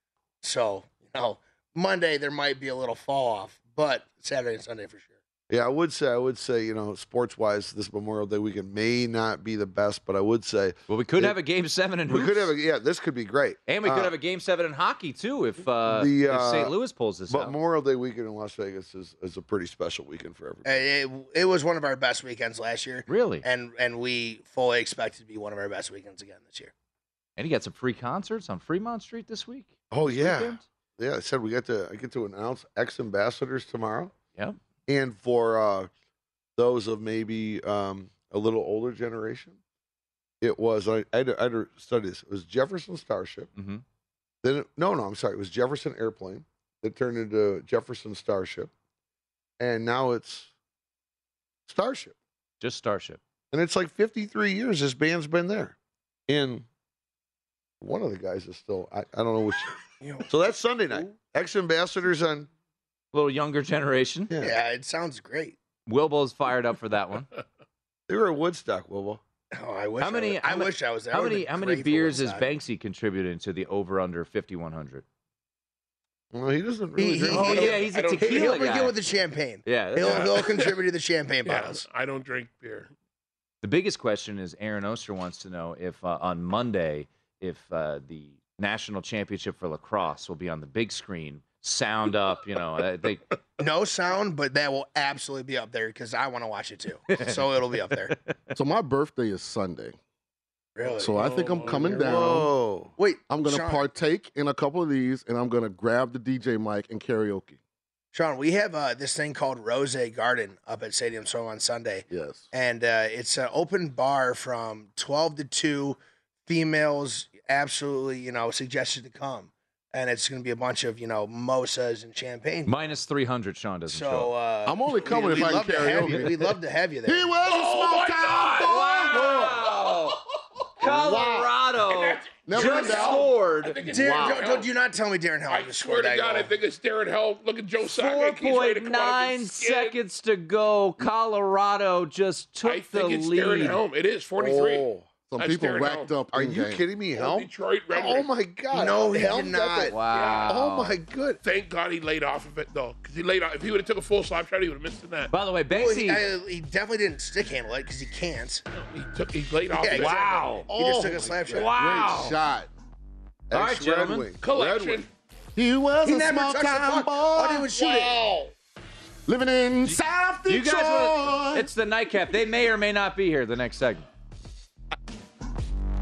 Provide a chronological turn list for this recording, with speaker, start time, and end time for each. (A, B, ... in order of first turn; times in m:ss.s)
0:00.4-0:05.1 A
0:05.5-0:11.4 B
0:10.9-0:12.5 C
0:12.1-0:14.1 B
0:13.6-0:17.5 C
0:15.9-0:16.7 B
0:17.3-0:20.8 B
0:20.6-0:26.7 A
0:23.0-0:23.4 C
0:27.4-0:30.6 C
0:29.9-0:34.1 B
0:34.9-0:35.9 B
0:36.6-0:39.6 B
0:40.4-0:43.5 B
0:43.5-0:43.8 C
0:44.4-0:48.7 B
0:49.6-0:50.5 B
0:51.7-0:52.1 B
0:52.6-0:53.2 C
0:53.5-0:55.7 B
0:56.3-0:56.6 B
0:57.8-1:02.5 B
1:00.0-1:00.3 A
1:03.1-1:04.3 C
1:04.3-1:04.6 B
1:04.4-1:05.6 A
1:05.9-1:07.3 C
1:08.1-1:09.2 B
1:09.5-1:12.5 A
1:10.0-1:15.0 C
1:16.3-1:17.8 B
1:17.0-1:21.8 A
1:17.3-1:19.0 C
1:17.3-1:18.7 D
1:19.6-1:20.4 C
1:20.0-1:20.7 D
1:21.4-1:22.9 D
1:23.6-1:33.2 C
1:33.6-1:38.2 A
1:38.5-1:40.0 E
1:40.8-1:42.4 A
1:41.0-1:42.5 E
1:41.0-1:42.2 D
1:41.8-1:42.9 B
1:43.0-1:43.8 A
1:43.3-1:47.6 E
1:48.1-2:02.7 A
1:52.1-1:52.5 E
2:02.6-2:04.3 C
2:03.9-2:07.3 A
2:04.6-2:09.8 E
2:07.4-2:09.4 D
2:08.3-2:10.2 C
2:10.8-2:13.8 C
2:10.8-2:11.5 E
2:10.9-2:11.4 B
2:11.8-2:14.7 D
2:12.4-2:13.4 E
2:13.8-2:16.5 A
2:13.9-2:14.2 B
2:15.5-2:20.0 D
2:17.8-2:23.8 C
2:22.6-2:26.2 D
2:24.3-2:25.1 B
2:25.3-2:26.8 E
2:26.3-2:29.9 B
2:27.1-2:28.3 D
2:28.7-2:30.0 A
2:29.9-2:31.0 C
2:30.1-2:30.6 D
2:30.5-2:31.4 B
2:31.4-2:35.3 D
2:35.3-2:36.3 C
2:35.7-2:38.6 A
2:38.7-2:40.6 D
2:39.7-2:40.1 A
2:39.9-2:40.7 C
2:40.3-2:41.6 B
2:40.7-2:41.7 A
2:41.0-2:42.7 E
2:41.5-2:42.3 C
2:41.6-2:42.1 D
2:43.5-2:45.0 B
2:43.5-2:44.3 C
2:44.4-2:45.1 D
2:45.5-2:48.1 E
2:46.0-2:48.2 A
2:49.3-2:51.7 E
2:49.8-2:54.1 C